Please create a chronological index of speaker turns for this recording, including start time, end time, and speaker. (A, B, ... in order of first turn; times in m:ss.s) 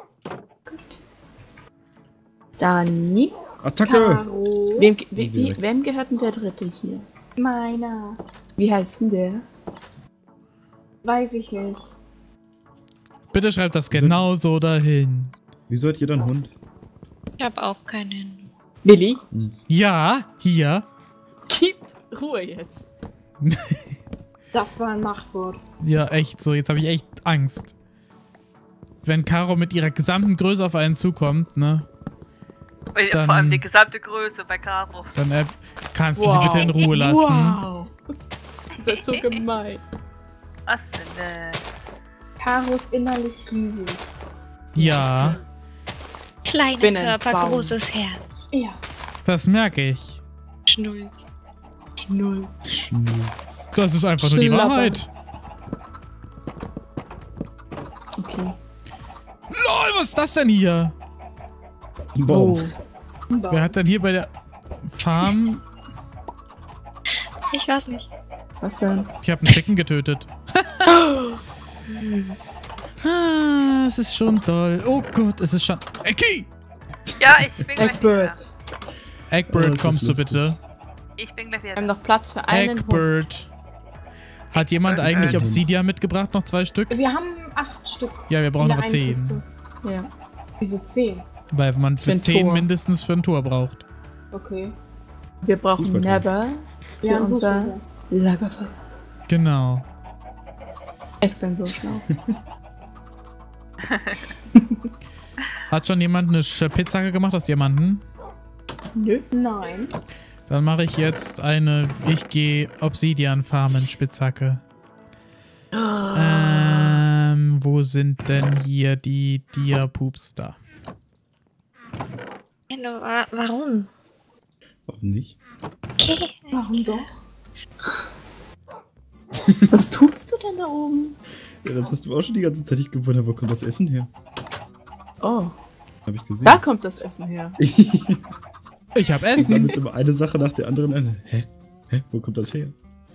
0:00.7-0:00.9 A
0:02.6-0:03.3 A
0:03.6-0:04.3 B
0:03.8-0:04.9 C
0:04.8-0:07.0 A
0:05.2-0:05.6 B
0:07.4-0:08.2 C
0:08.6-0:09.4 A
0:11.0-0:11.8 C
0:13.3-0:15.3 D
0:13.9-0:14.3 B
0:15.7-0:16.5 B
0:17.4-0:18.5 E
0:18.8-0:19.2 A
0:19.7-0:20.9 D
0:21.5-0:22.9 A
0:23.4-0:23.8 D
0:24.5-0:25.6 C
0:25.8-0:27.7 D
0:29.0-0:31.9 D
0:32.9-0:35.1 F
0:33.1-0:33.6 D
0:35.2-0:37.6 D
0:36.2-0:37.9 A
0:38.8-0:39.4 F
0:38.8-0:39.8 A
0:40.7-0:41.6 F
0:42.4-0:44.1 C
0:44.8-0:45.4 D
0:44.8-0:45.1 A
0:46.4-0:48.5 E
0:46.8-0:47.8 A
0:48.5-0:48.8 C
0:49.2-0:50.2 D
0:50.7-0:51.2 E
0:52.0-0:52.5 A
0:52.6-0:53.7 B
0:53.7-0:55.1 D
0:54.2-0:55.0 A
0:58.2-0:58.6 A
0:59.5-1:00.9 D
1:02.2-1:02.7 B
1:02.3-1:02.7 A
1:03.3-1:03.8 C
1:03.5-1:04.3 D
1:04.8-1:05.6 D
1:07.5-1:08.0 E
1:08.6-1:09.1 A
1:09.2-1:11.0 D
1:10.9-1:11.4 A
1:13.0-1:16.5 D
1:17.2-1:18.4 F
1:17.8-1:18.5 A
1:19.3-1:20.6 D
1:19.5-1:20.6 B
1:21.2-1:22.0 F
1:21.8-1:23.2 A
1:22.5-1:23.5 D
1:24.5-1:25.5 F
1:24.5-1:27.0 D
1:25.0-1:25.6 B
1:26.9-1:29.4 C
1:28.3-1:29.4 D
1:29.8-1:30.1 A
1:30.6-1:31.2 C
1:31.5-1:33.8 D
1:32.0-1:32.7 A
1:34.3-1:34.8 C
1:35.4-1:38.8 A
1:35.8-1:36.3 B
1:37.0-1:37.8 C
1:39.3-1:39.8 D
1:41.2-1:42.1 A
1:43.8-1:44.3 F
1:45.7-1:48.0 D
1:49.0-1:49.3 A
1:49.3-1:49.9 C
1:50.5-1:54.6 D
1:55.8-1:57.0 A
1:56.1-2:00.6 D
2:02.7-2:03.9 E
2:04.9-2:05.4 B
2:06.0-2:07.1 E
2:06.5-2:07.2 C
2:09.7-2:11.2 A
2:11.6-2:14.1 B
2:15.2-2:15.5 A
2:16.1-2:16.6 B
2:16.4-2:17.6 A
2:17.6-2:18.3 B
2:18.9-2:19.6 D
2:19.4-2:19.8 A
2:19.4-2:22.8 B